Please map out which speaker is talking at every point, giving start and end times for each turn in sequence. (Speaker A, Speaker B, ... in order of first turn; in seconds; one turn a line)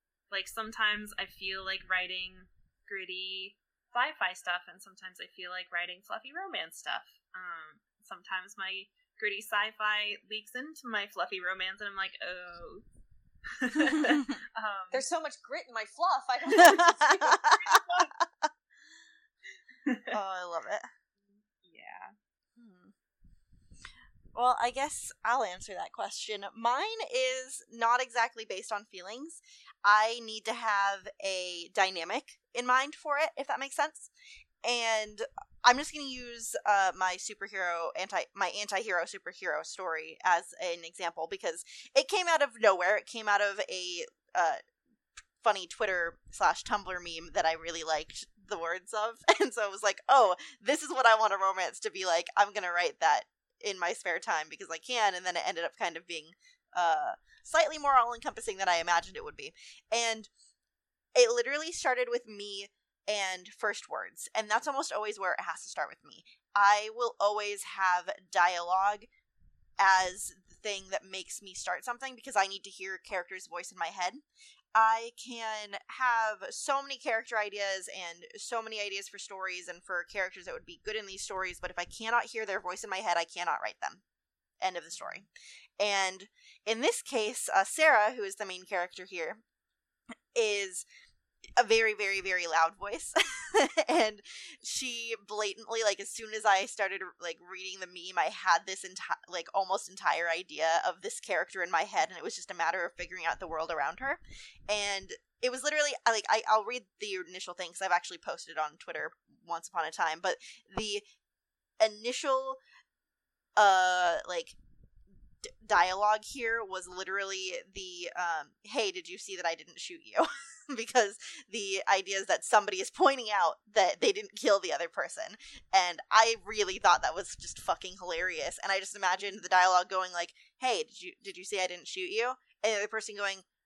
Speaker A: 0.3-12.8
Speaker A: 13.5-15.0
Speaker B: 14.0-14.3
Speaker C: 14.9-17.6
Speaker B: 16.6-18.5
Speaker A: 17.7-18.1
Speaker A: 19.9-20.2
Speaker B: 20.1-20.9
Speaker A: 21.2-22.1
Speaker B: 22.6-22.9
Speaker B: 24.3-34.1
Speaker B: 34.6-44.6
Speaker B: 45.4-60.3
Speaker B: 61.1-69.1
Speaker B: 69.8-74.2
Speaker B: 74.7-84.0
Speaker B: 84.6-85.3
Speaker A: 84.9-85.2
Speaker B: 85.8-89.4
Speaker B: 90.3-90.8
Speaker B: 91.6-111.0
Speaker B: 111.8-112.6
Speaker B: 113.5-114.5
Speaker B: 115.4-133.4